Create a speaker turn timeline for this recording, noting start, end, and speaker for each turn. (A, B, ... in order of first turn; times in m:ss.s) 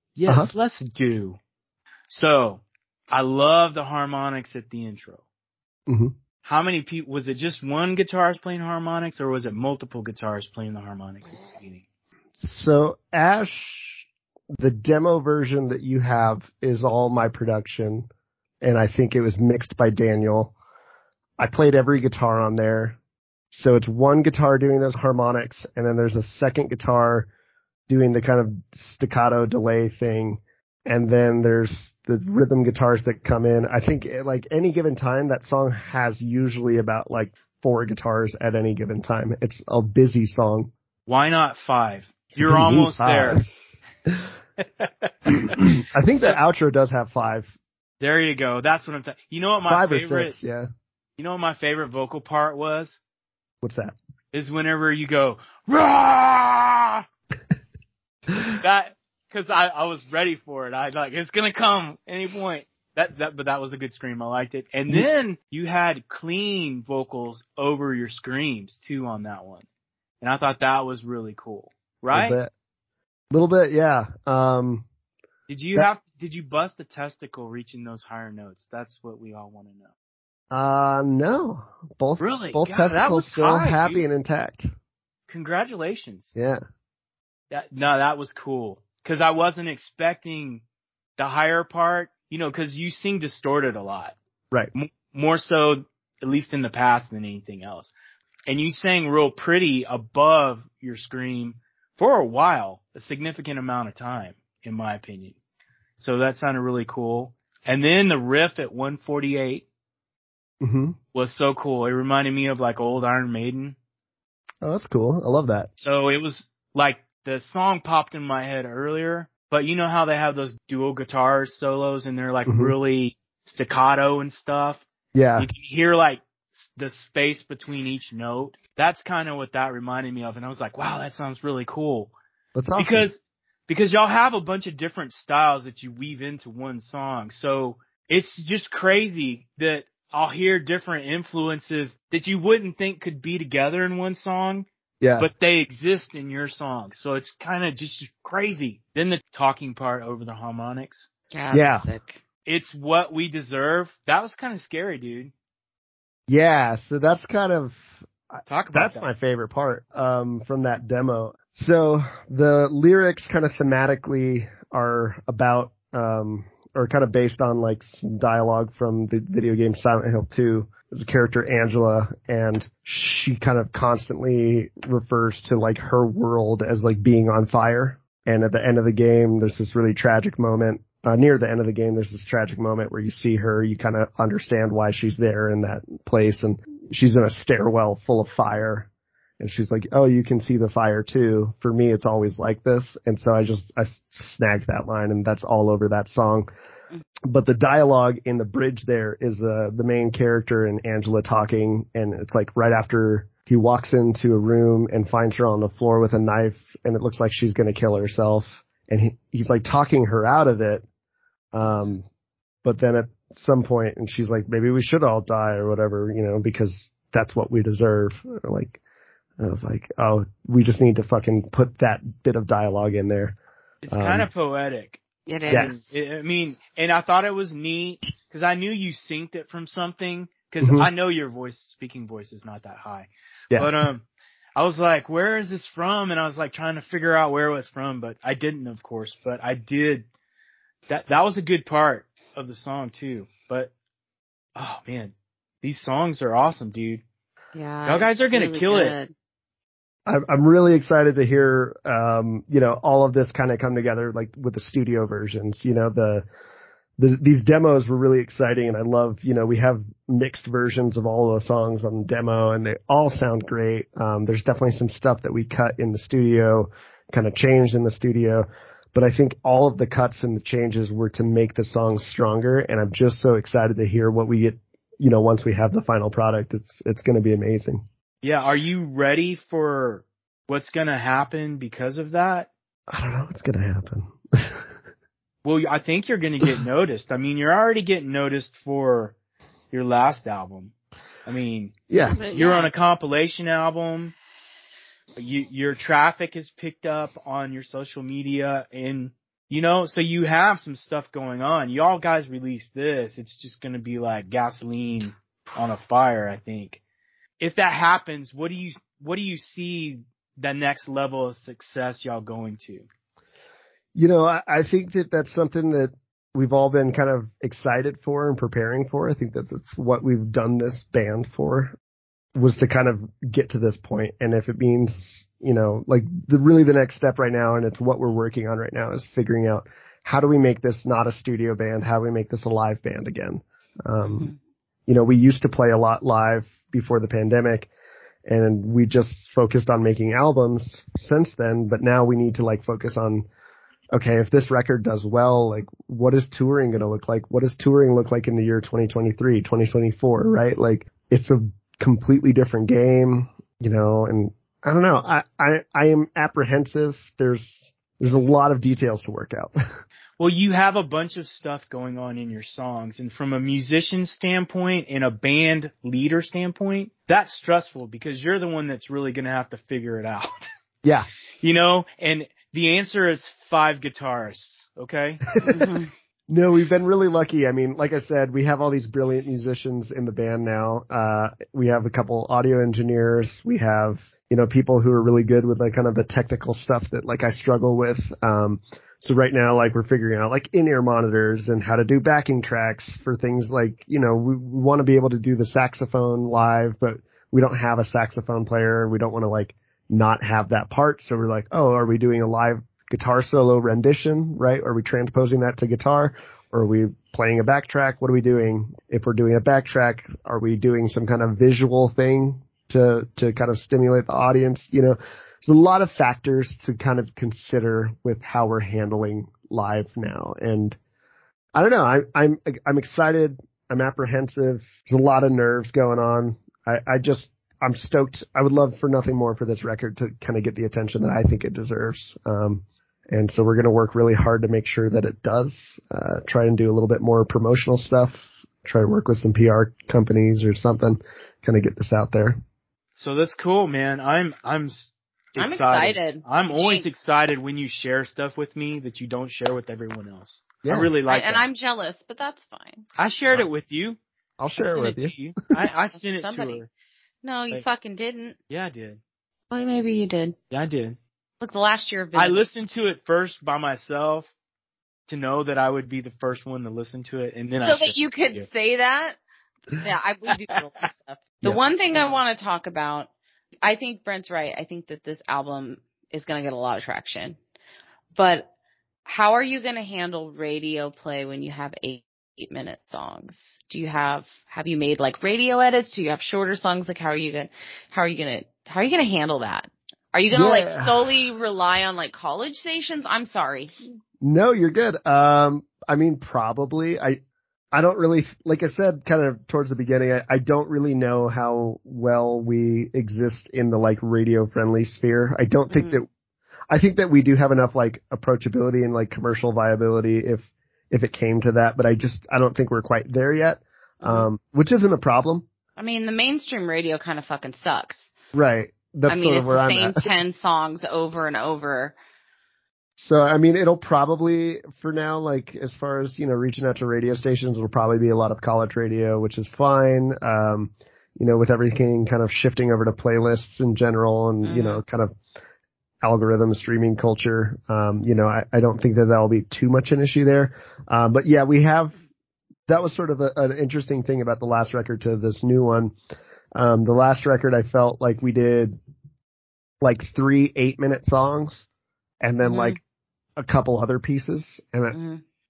0:00.2-0:01.4 A
0:02.1-0:05.2 A
0:05.9-0:06.1 B
0:06.4-0:11.8 A
0:12.3-0:14.1 B
0:14.6-0:18.1 B
0:18.6-0:20.5 B
0:21.4-0:23.0 B
0:23.5-0:27.3 B
0:27.9-0:40.7 B
0:41.1-0:43.4 A
0:42.3-0:43.5 B
0:44.6-0:46.4 A
0:45.5-0:47.5 B
0:48.0-0:50.3 A
0:49.7-0:50.7 B
0:51.2-0:53.0 A
0:53.6-0:53.9 B
0:54.3-0:57.0 A
0:58.4-1:09.6 A
1:10.2-1:12.4 A
1:12.1-1:12.5 B
1:13.3-1:14.8 B
1:15.5-1:19.9 A
1:20.5-1:24.7 B
1:22.2-1:24.0 A
1:25.3-1:26.3 A
1:26.4-1:26.6 B
1:27.5-1:30.6 A
1:31.2-1:34.1 A
1:34.7-1:37.9 A
1:38.5-1:45.4 A
1:46.0-1:49.6 A
1:50.6-1:51.0 B
1:51.1-1:53.8 A
1:54.6-1:55.7 B
1:55.8-2:04.8 A
2:02.5-2:02.7 B
2:05.1-2:05.5 B
2:05.4-2:12.1 A
2:12.5-2:13.0 B
2:12.8-2:24.7 A
2:25.0-2:25.3 B
2:25.2-2:31.1 A
2:31.3-2:32.2 C
2:31.5-2:31.9 B
2:32.4-2:35.3 A
2:36.3-2:37.8 B
2:38.3-3:08.9 B
2:38.5-2:39.0 A
3:09.4-3:16.5 B
3:17.3-3:30.8 B
3:31.5-3:32.0 B
3:32.6-3:38.8 B
3:39.4-3:43.4 B
3:43.8-4:00.0 A
3:43.9-3:44.3 B
3:45.3-3:45.9 C
3:50.6-3:50.9 B
4:00.9-4:03.7 A
4:04.6-4:07.0 A
4:07.5-4:09.1 C
4:07.8-4:08.9 A
4:10.0-4:16.2 B
4:17.0-4:37.8 B
4:38.2-4:42.5 A
4:42.9-4:44.7 B
4:45.4-4:49.1 A
4:49.7-4:51.8 A
4:51.9-4:52.2 B
4:52.1-4:52.7 C
4:52.3-4:54.1 A
4:55.2-5:06.8 A
5:07.4-5:12.9 A
5:13.9-5:21.7 B
5:22.4-5:34.3 B
5:34.9-5:37.7 B
5:38.2-5:43.2 B
5:43.9-5:59.5 B
6:00.2-6:10.5 A
6:10.8-6:11.1 B
6:11.4-6:15.4 A
6:15.4-6:15.9 C
6:16.3-7:00.8 B
7:01.5-7:22.4 B
7:22.9-7:31.5 A
7:25.4-7:26.9 C
7:30.6-7:30.9 B
7:31.1-7:32.9 C
7:33.0-7:34.0 A
7:34.4-7:35.2 B
7:34.6-7:36.7 A
7:35.9-7:36.6 C
7:37.2-7:38.4 C
7:38.5-7:39.0 A
7:39.5-7:40.4 C
7:40.5-7:41.0 A
7:41.4-7:42.5 C
7:42.1-7:44.3 A
7:45.1-7:48.5 A
7:47.6-7:49.2 C
7:49.8-7:53.1 C
7:51.4-7:52.2 A
7:53.6-7:57.4 C
7:58.1-7:58.5 C
7:59.0-8:13.7 C
8:10.3-8:11.1 B
8:14.2-8:17.2 B
8:17.7-8:26.1 B
8:25.7-8:26.0 C
8:26.7-8:35.4 B
8:34.0-8:34.3 C
8:35.8-8:38.1 C
8:38.3-8:40.1 B
8:39.1-8:42.0 C
8:43.0-8:55.1 B
8:54.4-8:54.8 C
8:56.0-9:01.9 B
9:02.7-9:05.9 B
9:06.5-9:08.8 B
9:09.8-9:11.6 B
9:12.2-9:12.8 B
9:12.4-9:12.8 C
9:13.4-9:14.9 B
9:14.9-9:15.2 C